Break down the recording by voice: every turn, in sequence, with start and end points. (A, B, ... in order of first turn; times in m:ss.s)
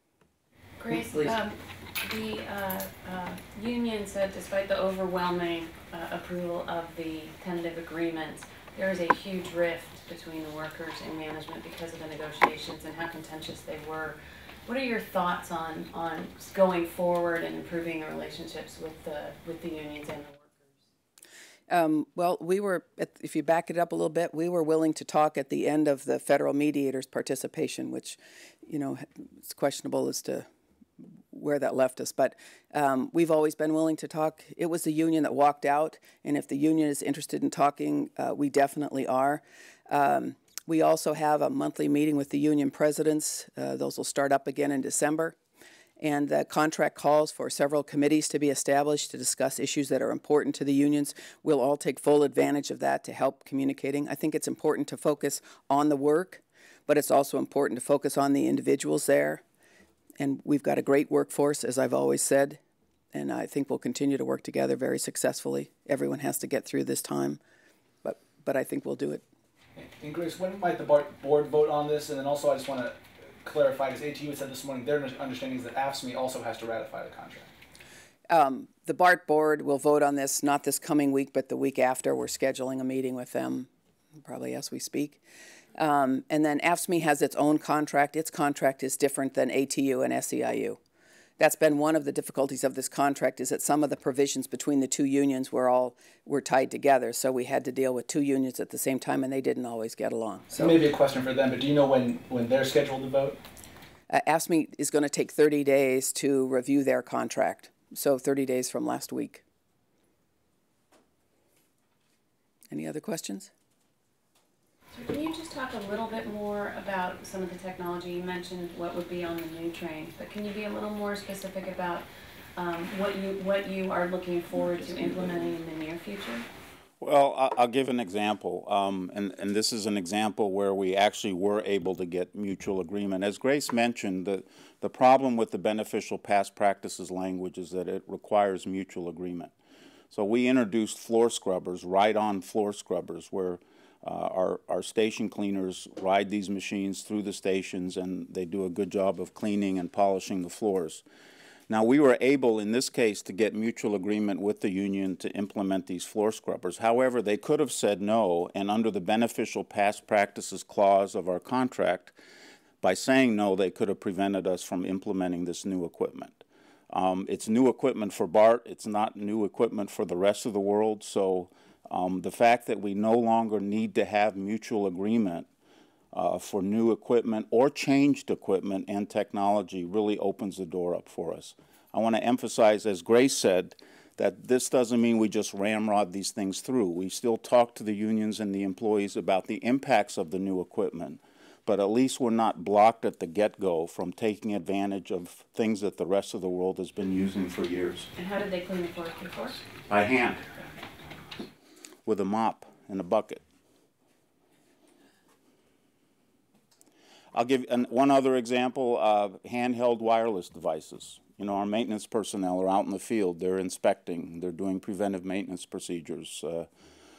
0:00.8-0:20.5 A
0:21.7-0:30.5 B
0:31.3-0:45.4 B
0:46.0-0:59.4 B
1:00.2-1:02.6 B
1:03.1-1:07.4 B
1:08.0-1:09.2 B
1:09.8-1:17.5 C
1:18.3-1:23.7 B
1:24.2-1:25.2 B
1:25.8-1:30.8 B
1:31.4-1:40.8 B
1:40.5-1:43.4 C
1:44.1-1:49.4 B
1:52.7-1:53.5 B
1:54.9-2:02.0 A
2:02.6-2:06.4 A
2:07.0-2:19.5 D
2:20.1-2:31.0 D
2:31.7-2:42.1 D
2:42.8-2:55.5 D
2:56.1-3:18.1 D
3:18.2-3:19.6 A
3:19.9-3:20.7 D
3:22.0-3:23.4 D
3:27.3-3:36.7 D